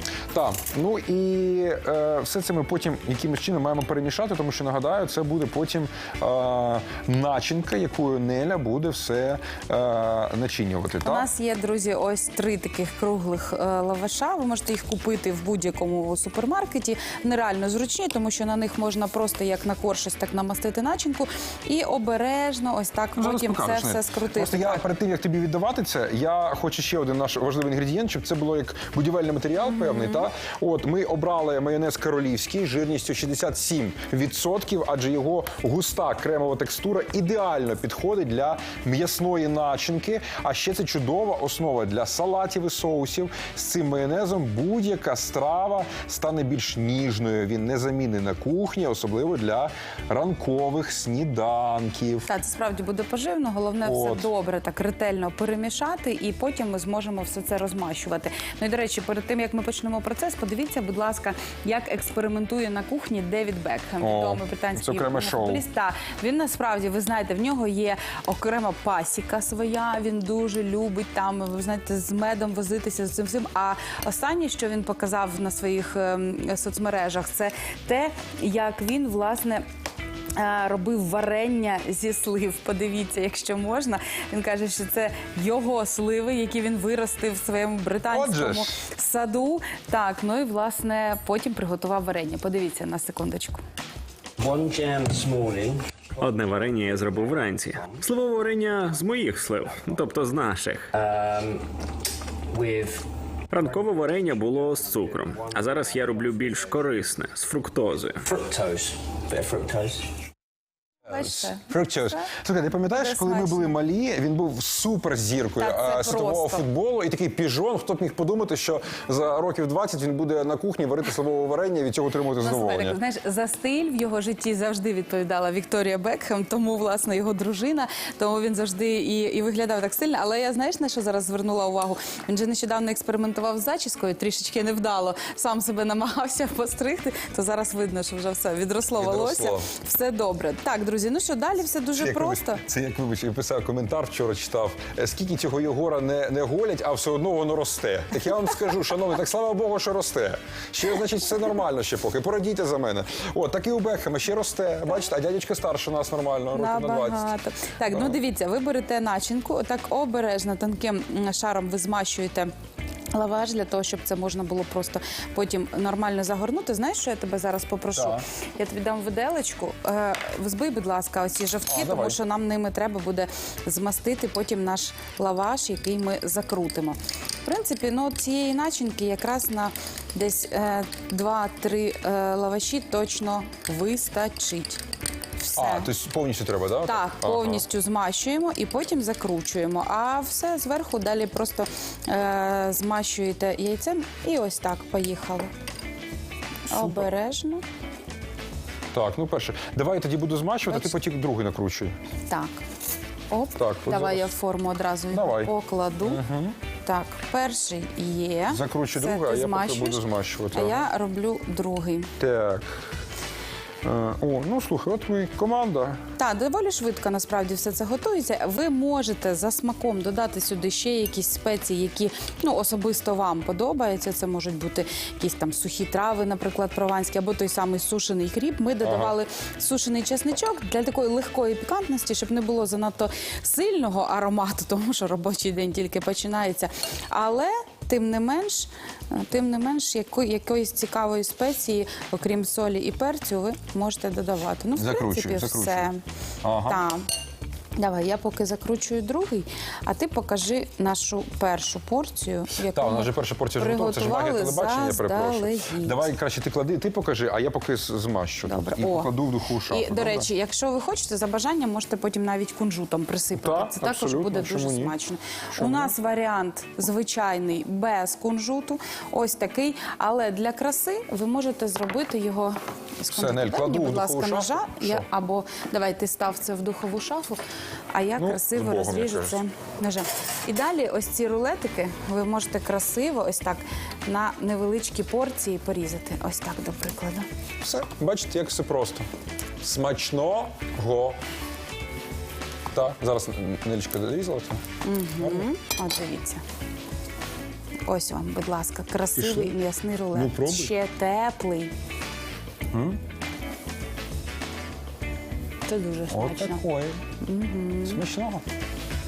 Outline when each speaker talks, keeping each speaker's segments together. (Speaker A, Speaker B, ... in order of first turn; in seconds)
Speaker A: 0.3-11.3, 23.2-52.3, 53.8-54.3, 64.0-65.6, 88.1-88.8, 111.1-123.0, 139.0-139.7, 142.0-157.3, 157.9-158.2, 167.9-168.2, 171.7-172.2, 185.6-187.7, 196.7-197.1, 198.9-201.9, 203.6-204.3, 205.1-206.6, 208.5-210.8, 212.2-212.7, 213.8-216.0, 228.8-229.2, 244.8-245.9, 246.4-246.8, 252.6-260.3, 263.4-264.9, 265.6-265.9, 273.1-275.1, 278.2-279.4, 287.6-289.1, 289.6-291.2, 292.7-294.6, 295.2-295.5, 299.1-299.6, 300.1-300.7, 302.7-303.0, 306.1-307.0, 307.9-308.4
Speaker B: 11.0-24.8, 29.7-30.2, 52.3-79.6, 80.4-93.6, 111.1-111.7, 112.9-113.7, 115.6-116.7, 122.4-142.6, 156.5-162.5, 163.1-184.8, 185.4-185.9, 186.9-195.5, 196.7-197.6, 202.3-202.6, 203.3-206.2, 206.8-212.1, 216.2-246.0, 246.6-247.1, 247.8-256.1, 258.5-259.1, 259.7-277.4, 277.9-287.3, 294.8-296.4, 297.9-301.7, 305.7-306.6, 307.2-308.0
Speaker C: 94.4-95.8, 97.0-98.0, 100.9-101.7, 102.5-103.1, 103.7-106.8, 108.2-110.1
Speaker D: 96.2-100.9, 103.5-108.3